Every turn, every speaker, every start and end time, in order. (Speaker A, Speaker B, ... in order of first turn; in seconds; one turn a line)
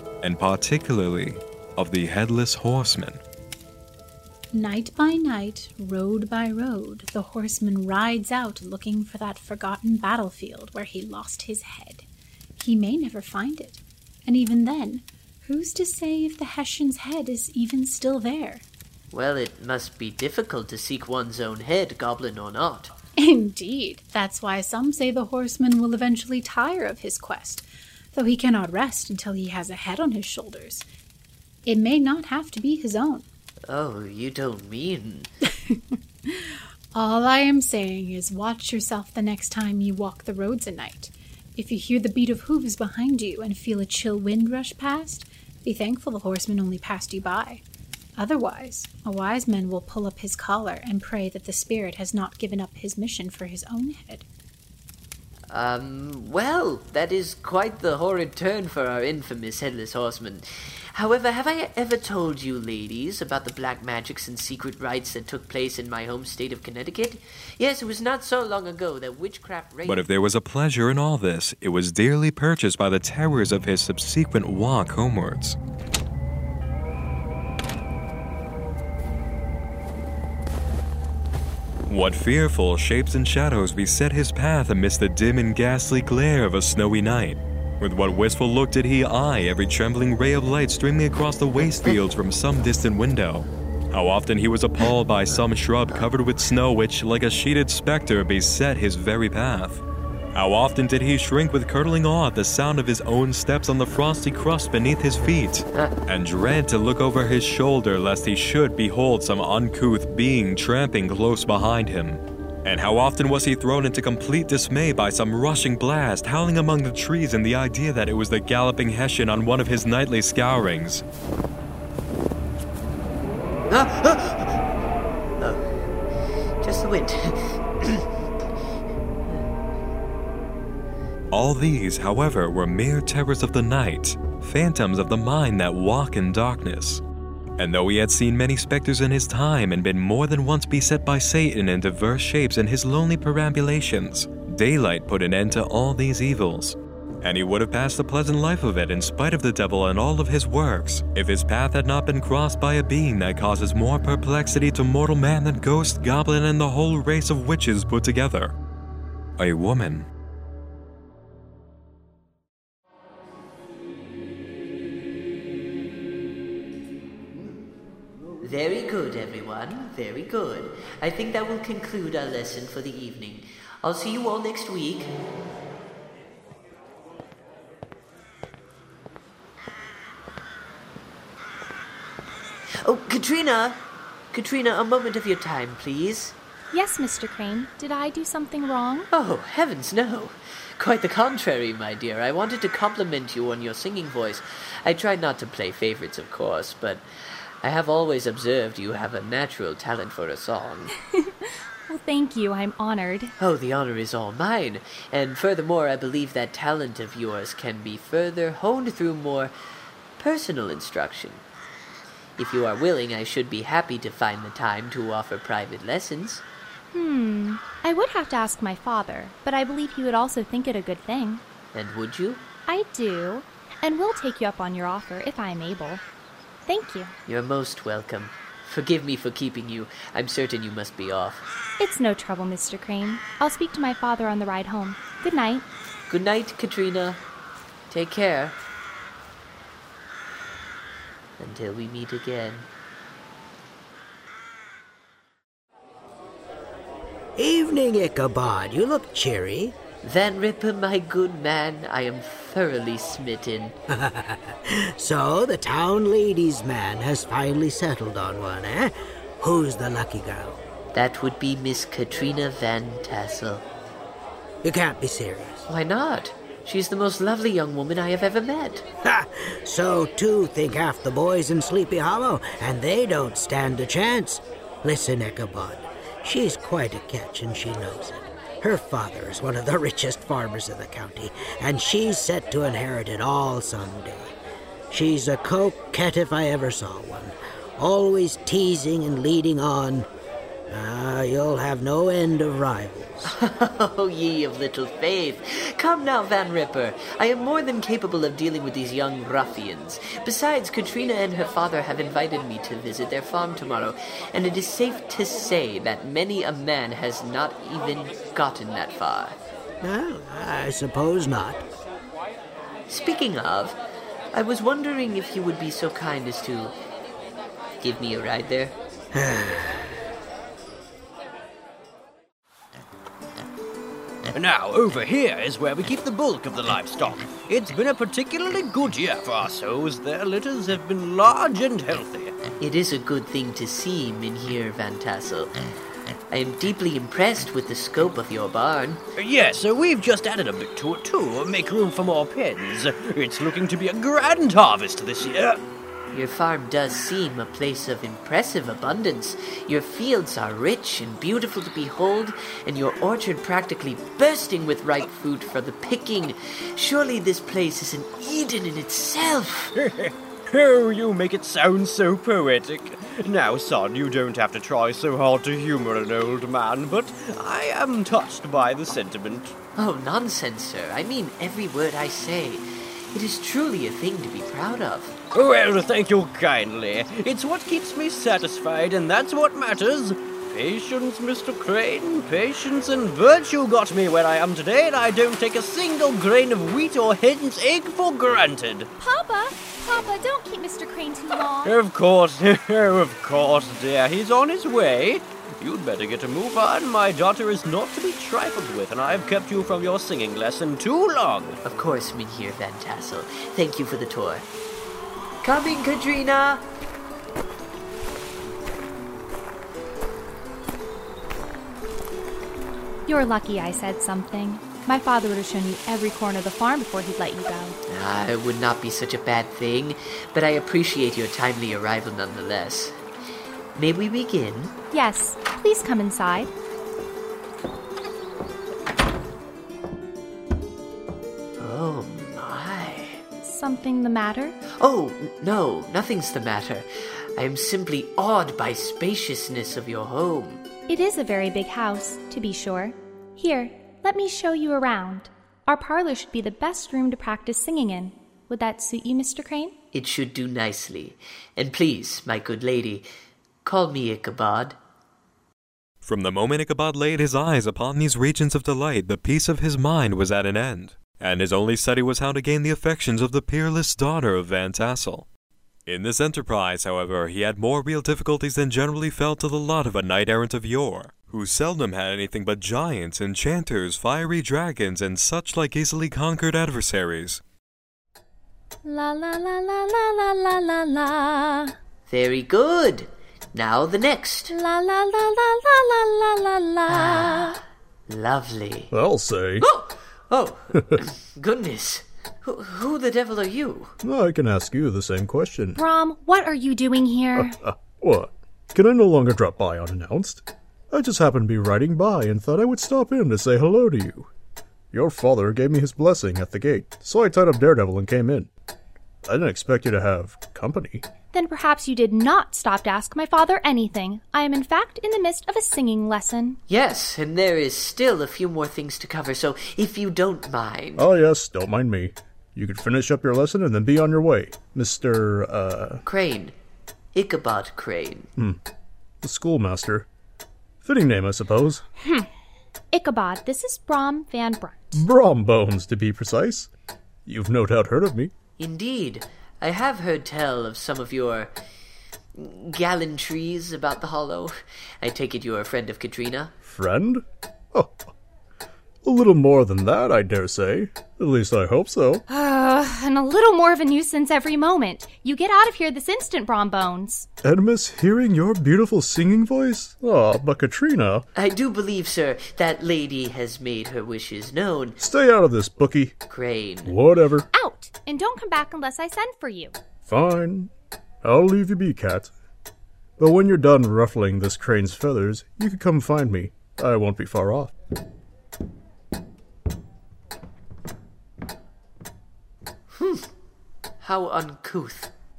Speaker A: 0.2-3.2
Speaker B: 4.5-18.6
Speaker C: 19.1-22.9
Speaker B: 23.2-30.9
Speaker B: 31.7-33.3
Speaker C: 33.7-35.3
Speaker B: 35.7-47.6
Speaker B: 48.2-54.3
Speaker C: 55.5-70.1
Speaker A: 69.8-75.6
Speaker A: 81.9-99.8
Speaker A: 100.3-121.0
Speaker C: 123.7-124.6
Speaker C: 125.4-125.7
Speaker C: 126.6-128.1
Speaker A: 131.3-137.0
Speaker A: 137.6-158.5
Speaker A: 159.4-160.1
Speaker C: 168.4-175.2
Speaker C: 182.8-186.4
Speaker D: 186.7-189.1
Speaker C: 189.1-197.0
Speaker C: 197.6-200.9
Speaker D: 201.2-203.3
Speaker C: 203.4-209.5
Speaker C: 210.2-211.4
Speaker C: 212.4-216.4
Speaker D: 216.9-221.4
Speaker C: 221.7-222.5
Speaker D: 222.7-226.0
Speaker D: 226.7-227.1
Speaker C: 227.3-231.5
Speaker D: 231.8-235.7
Speaker C: 236.1-237.2
Speaker C: 237.9-238.6
Speaker C: 241.4-242.7
Speaker E: 247.4-249.8
Speaker C: 250.0-253.8
Speaker E: 253.9-260.6
Speaker C: 260.9-263.7
Speaker E: 264.6-265.6
Speaker C: 265.7-268.9
Speaker E: 269.0-284.4
Speaker E: 284.9-290.1
Speaker E: 290.7-293.3
Speaker C: 293.2-309.4
Speaker E: 309.8-311.6
Speaker C: 312.9-313.8
Speaker C: 314.3-316.8
Speaker C: 317.8-318.8
Speaker E: 319.1-319.8
Speaker F: 324.3-332.4
Speaker C: 332.6-335.6
Speaker C: 336.3-339.0
Speaker F: 339.2-345.6
Speaker C: 346.1-359.8
Speaker F: 359.8-369.6
Speaker C: 369.8-375.2
Speaker F: 375.3-388.9
Speaker D: 389.0-391.8
Speaker F: 391.6-401.6
Speaker C: 401.6-404.5
Speaker C: 405.4-406.7
Speaker D: 413.1-417.8
Speaker C: 417.9-423.0
Speaker C: 423.8-424.8
Speaker D: 424.9-426.5
Speaker C: 431.6-433.2
Speaker D: 433.4-434.6
Speaker C: 434.8-440.6
Speaker D: 440.9-449.8
Speaker C: 449.9-453.1
Speaker C: 453.6-454.8
Speaker A: 456.0-465.3
Speaker A: 465.9-477.4
Speaker D: 478.8-481.8
Speaker C: 482.1-484.5
Speaker D: 484.5-487.6
Speaker C: 486.9-488.9
Speaker G: 488.9-489.7
Speaker C: 489.6-493.9
Speaker G: 494.0-495.8
Speaker D: 495.8-497.6
Speaker G: 497.4-504.3
Speaker G: 504.9-508.5
Speaker G: 509.2-511.1
Speaker D: 511.3-516.6
Speaker C: 516.7-521.1
Speaker G: 521.0-526.0
Speaker C: 526.0-526.5
Speaker C: 527.1-528.3
Speaker G: 529.2-530.1
Speaker G: 530.8-531.8
Speaker D: 532.0-532.3
Speaker D: 532.9-535.0
Speaker G: 534.9-536.7
Speaker G: 537.3-538.3
Speaker C: 538.6-541.5
Speaker C: 542.4-546.5
Speaker G: 546.6-548.1
Speaker G: 549.0-552.2
Speaker D: 552.3-557.3
Speaker G: 557.4-561.3
Speaker C: 561.4-565.0
Speaker G: 565.0-566.1
Speaker C: 566.3-567.0
Speaker G: 566.9-567.5
Speaker D: 567.5-569.8
Speaker G: 570.0-570.7
Speaker G: 571.2-572.3
Speaker G: 573.2-577.7
Speaker C: 582.9-583.3
Speaker C: 584.0-585.1